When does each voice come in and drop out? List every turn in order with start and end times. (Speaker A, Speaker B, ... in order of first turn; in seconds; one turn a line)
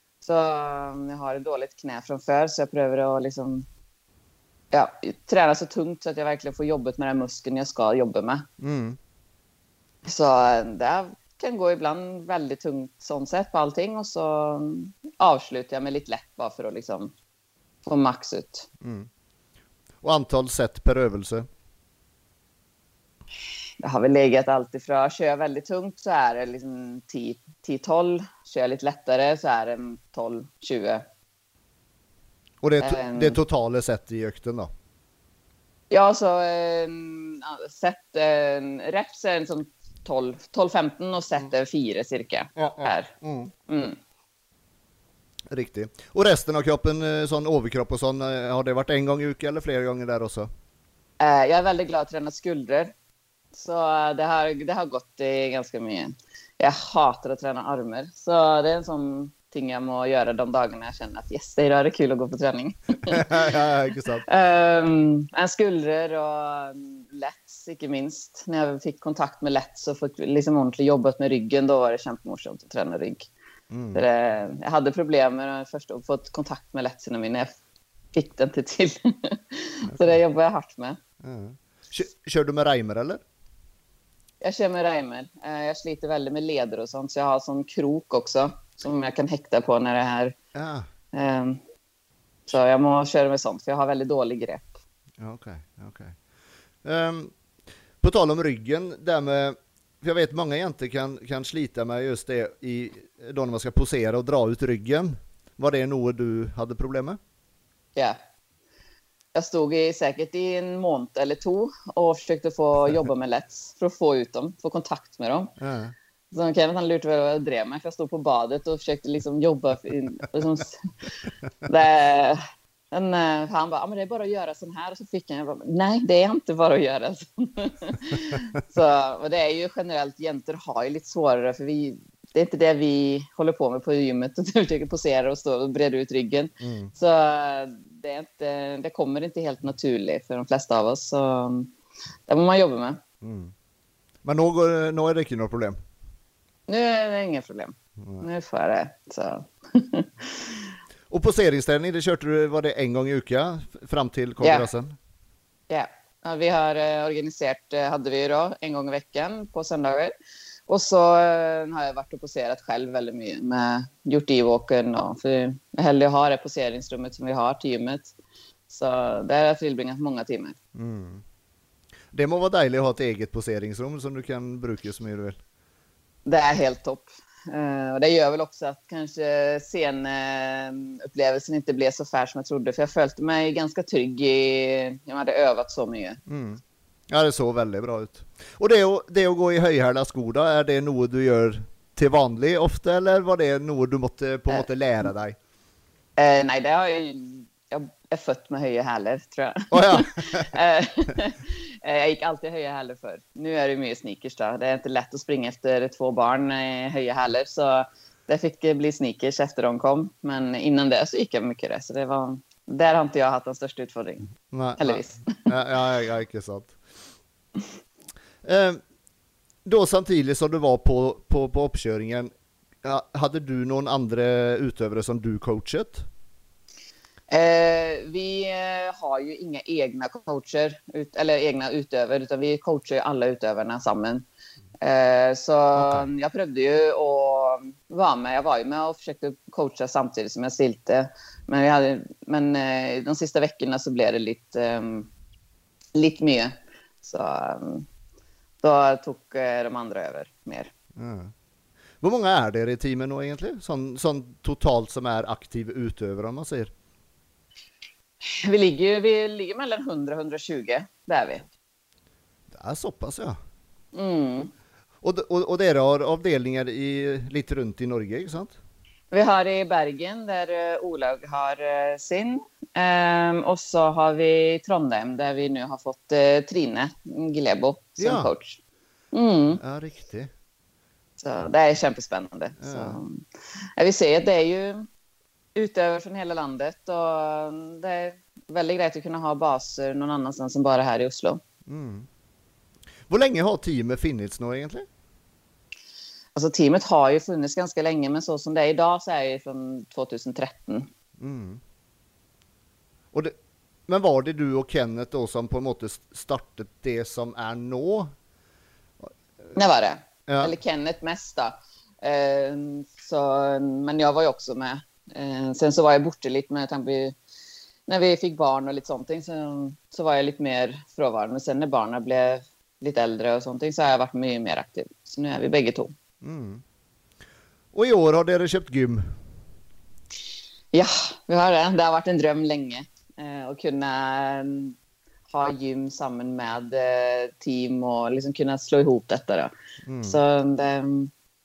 Speaker A: 0.2-3.7
Speaker A: 4.7-8.5
Speaker B: 8.6-9.0
Speaker A: 10.1-17.1
Speaker A: 17.9-18.7
Speaker B: 18.8-19.1
Speaker B: 20.0-21.5
Speaker A: 23.8-31.0
Speaker B: 32.6-34.7
Speaker A: 32.8-33.4
Speaker A: 35.9-43.1
Speaker B: 42.6-43.5
Speaker A: 43.7-44.0
Speaker B: 45.5-50.5
Speaker A: 51.2-52.9
Speaker A: 53.5-63.5
Speaker B: 63.1-64.2
Speaker A: 64.2-73.3
Speaker B: 73.7-74.0
Speaker A: 73.9-77.6
Speaker A: 78.1-81.0
Speaker B: 79.9-80.2
Speaker B: 81.2-83.2
Speaker A: 84.4-90.4
Speaker B: 90.5-90.9
Speaker A: 91.1-91.6
Speaker A: 92.5-94.8
Speaker B: 95.2-96.2
Speaker B: 96.8-97.3
Speaker B: 98.0-107.2
Speaker A: 109.3-115.5
Speaker B: 115.6-116.0
Speaker A: 116.3-121.1
Speaker A: 121.7-141.7
Speaker B: 136.6-136.9
Speaker A: 142.3-143.0
Speaker B: 143.2-143.5
Speaker B: 144.2-145.8
Speaker A: 146.7-150.7
Speaker B: 148.0-148.2
Speaker B: 151.1-155.0
Speaker A: 154.4-154.7
Speaker A: 155.7-160.1
Speaker A: 160.7-168.1
Speaker A: 168.7-170.6
Speaker B: 170.8-171.2
Speaker B: 172.1-175.4
Speaker A: 176.3-186.2
Speaker B: 186.3-195.4
Speaker A: 196.2-215.5
Speaker B: 199.7-200.5
Speaker B: 214.5-216.8
Speaker B: 218.4-218.8
Speaker B: 219.7-222.3
Speaker B: 222.8-226.1
Speaker A: 227.3-234.2
Speaker A: 234.8-245.1
Speaker B: 235.8-236.1
Speaker A: 245.9-247.9
Speaker A: 248.6-250.7
Speaker B: 251.0-251.3
Speaker B: 252.0-256.7
Speaker A: 258.3-261.5
Speaker B: 262.5-263.4
Speaker A: 263.9-264.5
Speaker B: 265.0-268.6
Speaker A: 269.1-278.6
Speaker B: 278.0-278.3
Speaker A: 279.1-279.6
Speaker B: 279.6-280.3
Speaker A: 281.2-283.2
Speaker B: 282.6-283.0
Speaker A: 283.8-284.9
Speaker A: 285.6-291.4
Speaker B: 291.7-292.1
Speaker B: 293.1-294.9
Speaker A: 296.4-300.9
Speaker B: 301.2-301.6
Speaker B: 303.9-308.1
Speaker B: 309.0-309.5
Speaker A: 309.6-317.2
Speaker B: 310.3-310.6
Speaker A: 317.9-326.0
Speaker B: 326.2-326.6
Speaker B: 327.7-329.2
Speaker A: 330.7-334.8
Speaker A: 335.3-339.5
Speaker B: 339.9-340.2
Speaker A: 340.0-341.1